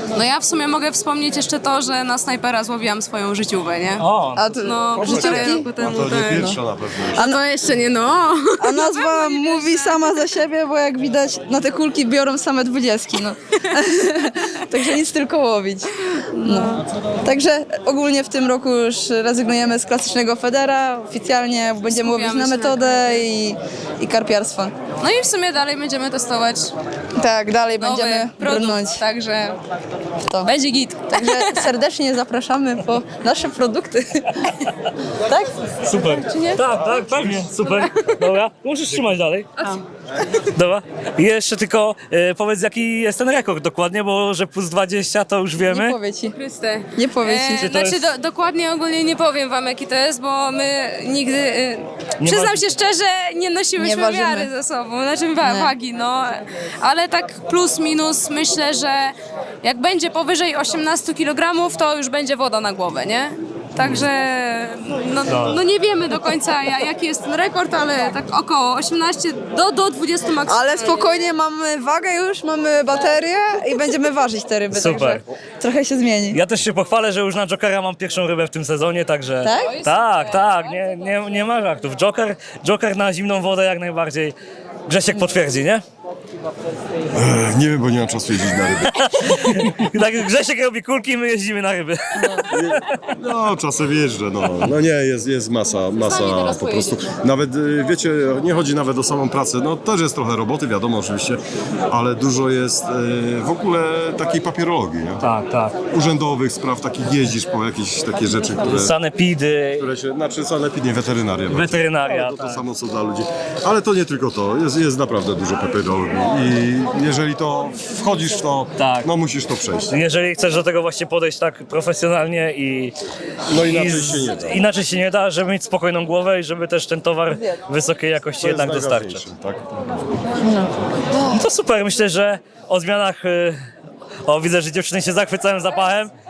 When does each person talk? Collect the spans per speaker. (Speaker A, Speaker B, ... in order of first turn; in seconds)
Speaker A: 0.1-4.0, 4.6-6.5, 7.1-9.9, 21.9-22.9, 25.0-26.7, 27.8-29.5, 30.4-31.5, 36.3-36.6, 46.3-59.1, 59.6-71.0, 79.6-81.0, 96.1-97.0
Speaker B: 4.0-4.5, 35.8-39.5, 40.4-46.0, 47.5-48.1, 52.2-52.6, 65.3-65.6, 74.7-75.2, 76.3-84.3, 84.9-85.8, 88.8-92.8, 105.2-105.8, 108.6-109.9, 111.5-112.6, 118.8-119.1, 119.8-122.9, 123.5-129.2, 131.3-133.6, 134.2-136.1
Speaker C: 4.4-5.7, 8.6-24.8, 27.2-29.0, 30.3-30.5, 31.1-34.6, 35.2-35.5, 45.6-46.3, 47.0-47.8, 53.8-54.5, 55.4-55.7, 70.5-76.4, 79.4-79.8, 127.3-127.5, 130.4-131.4
Speaker D: 5.0-7.2, 87.1-89.7, 92.5-105.2, 105.9-108.9, 109.8-119.9, 123.5-124.6, 128.4-129.8